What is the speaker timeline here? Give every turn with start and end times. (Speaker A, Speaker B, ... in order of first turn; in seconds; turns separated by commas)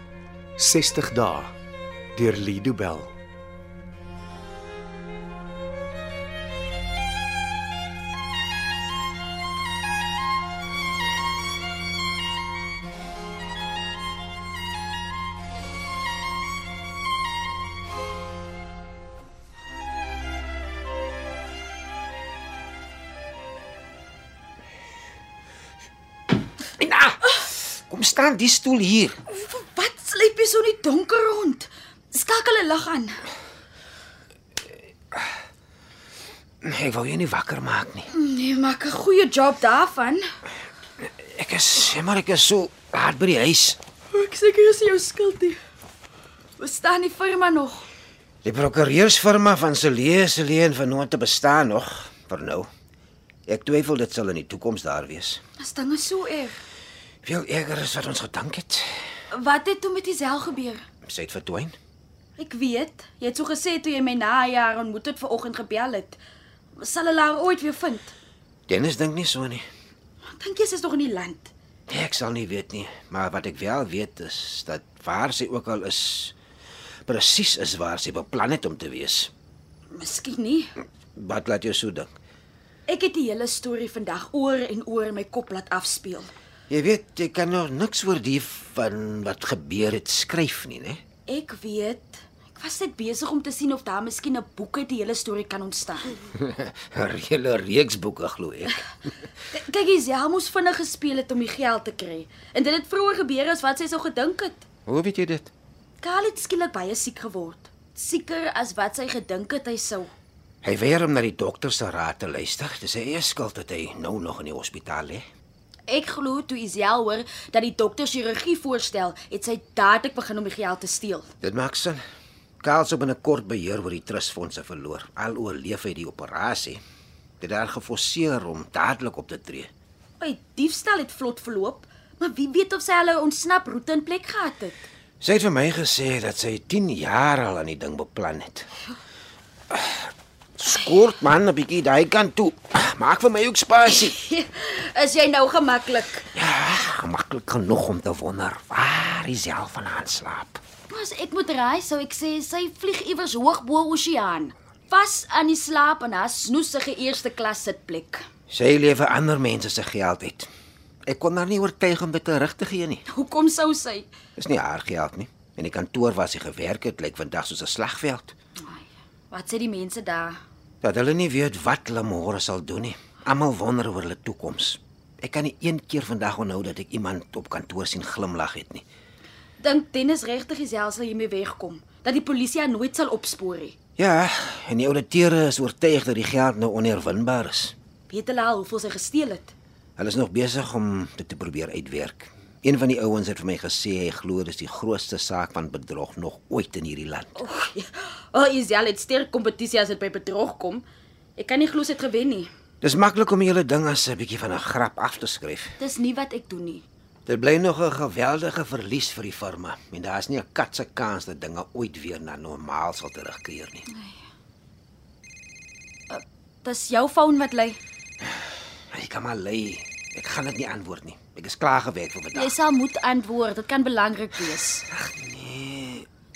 Speaker A: 0.6-1.5, Speaker A: 2.1-3.1, Speaker B: 26.8-29.2, Speaker C: 29.3-33.2, Speaker B: 36.6-38.1, Speaker C: 38.1-40.2, Speaker B: 41.0-43.8, Speaker C: 44.1-45.6, Speaker C: 46.6-47.9, Speaker B: 48.4-52.7, Speaker B: 53.5-55.4, Speaker C: 55.6-56.6, Speaker B: 57.2-59.1, Speaker C: 59.3-60.8, Speaker B: 61.0-61.8, Speaker C: 62.4-66.2, Speaker C: 66.8-68.1, Speaker B: 68.7-69.7, Speaker C: 70.2-71.5, Speaker B: 71.9-76.3, Speaker B: 77.0-79.3, Speaker C: 79.9-80.7, Speaker B: 81.1-82.1, Speaker C: 82.9-86.3, Speaker B: 86.7-91.0, Speaker C: 91.3-96.2, Speaker B: 96.3-98.9, Speaker C: 99.5-104.6, Speaker B: 104.8-105.5, Speaker C: 106.0-110.1, Speaker B: 110.6-115.2, Speaker C: 115.9-121.3, Speaker B: 121.4-122.0, Speaker B: 122.6-126.8, Speaker B: 127.4-129.7, Speaker C: 130.2-134.9, Speaker B: 135.2-138.7, Speaker B: 139.7-144.2, Speaker C: 143.8-146.3, Speaker B: 146.3-150.6, Speaker C: 150.9-158.2, Speaker B: 158.5-160.5, Speaker B: 161.1-163.0, Speaker C: 163.1-164.1, Speaker B: 164.4-168.3, Speaker C: 168.6-170.4, Speaker B: 170.8-178.8, Speaker C: 179.6-183.7, Speaker B: 184.0-187.7, Speaker C: 188.1-189.5, Speaker B: 190.0-197.4, Speaker C: 197.3-200.8, Speaker C: 201.4-202.5, Speaker B: 202.8-205.8, Speaker C: 205.8-206.8, Speaker B: 207.3-213.8, Speaker C: 213.9-214.2, Speaker C: 216.1-217.8, Speaker B: 218.9-222.6, Speaker C: 222.3-224.8, Speaker B: 224.9-226.1